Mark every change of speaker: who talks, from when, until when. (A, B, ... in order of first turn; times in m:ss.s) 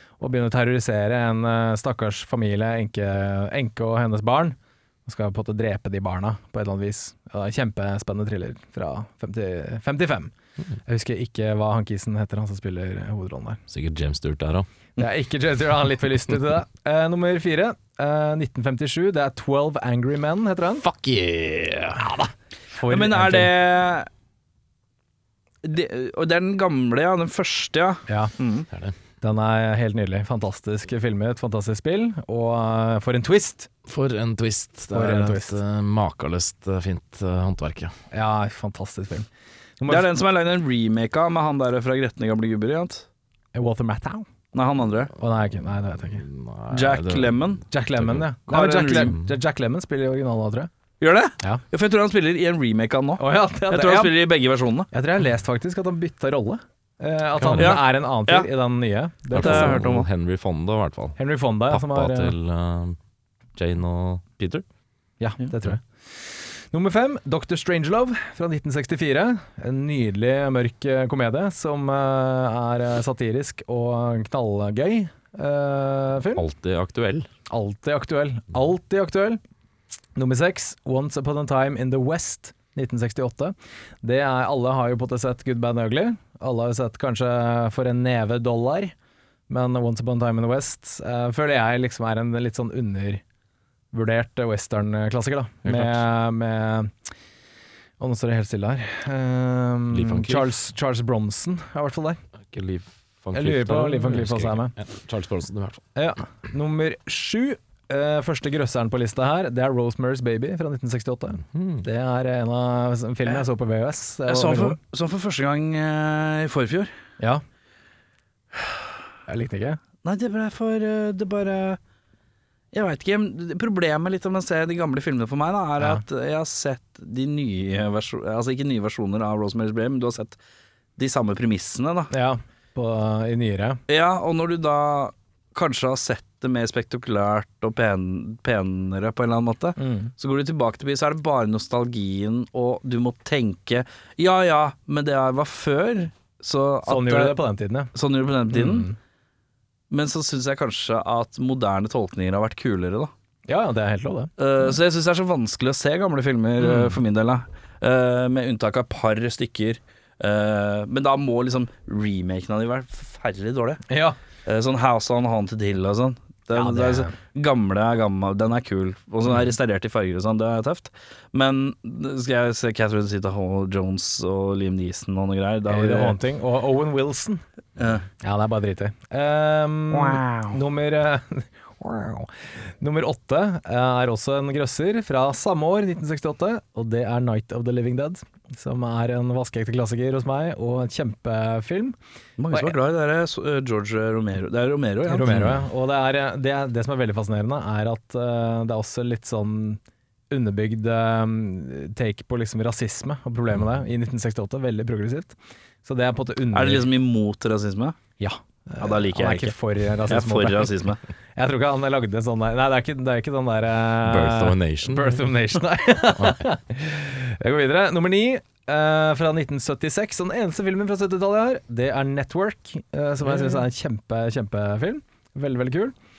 0:00.2-0:10.3 A
0:10.8-0:13.6 A
0:13.7-0:14.7 B
0:15.0-0:20.8 A
0:20.8-0:22.1 B
0:22.0-0:23.5 A
0:22.9-0:24.1 C
0:25.6-0:28.7 C
0:29.2-0:33.7 A
0:33.8-0:37.9 B
0:34.9-0:35.6 A
0:38.1-0:39.3 A
0:39.8-0:40.1 A
0:39.9-0:43.1 C
0:43.5-0:44.3 A
0:44.5-0:45.1 C
0:45.2-0:46.2 A
0:46.1-0:48.3 B
0:46.7-0:47.6 C
0:47.7-0:50.7 A
0:48.5-0:49.1 C
0:48.9-0:49.2 B
0:51.0-0:54.9 C
0:53.2-0:54.2 A
0:54.9-0:59.8 A
0:57.4-0:57.8 B
0:57.6-0:58.5 C
0:59.4-1:01.2 B
0:59.4-1:00.1 C
1:01.2-1:02.4 A
1:01.7-1:03.0 B
1:03.6-1:04.6 B
1:05.2-1:16.4 A
1:16.4-1:17.3 B
1:17.5-1:19.4 A
1:20.1-1:28.9 A
1:29.5-1:33.2 A
1:33.9-1:36.9 A
1:35.6-1:36.0 B
1:38.0-1:42.2 A
1:39.9-1:40.5 B
1:42.5-1:45.8 B
1:43.3-1:44.7 A
1:46.0-1:54.8 A
1:51.5-1:51.8 B
1:54.3-1:56.9 C
1:59.3-1:59.8 A
2:00.0-2:01.8 C
2:02.7-2:10.4 C
2:11.0-2:12.1 C
2:12.1-2:13.8 A
2:13.9-2:27.4 C
2:19.8-2:20.1 A
2:26.9-2:27.9 A
2:27.9-2:28.9 C
2:28.5-2:29.0 A
2:29.9-2:33.1 C
2:33.5-2:34.3 A
2:34.4-2:43.8 C
2:36.6-2:37.0 A
2:43.9-2:44.2 A
2:44.4-2:56.2 C
2:46.5-2:47.1 A
2:55.7-2:57.4 A
2:57.8-2:58.0 C
2:58.1-3:12.0 A
2:59.9-3:00.6 C
3:12.4-3:15.5 C
3:15.1-3:19.8 A
3:15.2-3:15.6 B
3:20.3-3:26.9 A
3:26.5-3:28.0 C
3:28.2-3:30.7 A
3:28.8-3:29.5 C
3:30.1-3:31.0 C
3:31.4-3:46.0 A
3:34.0-3:35.3 B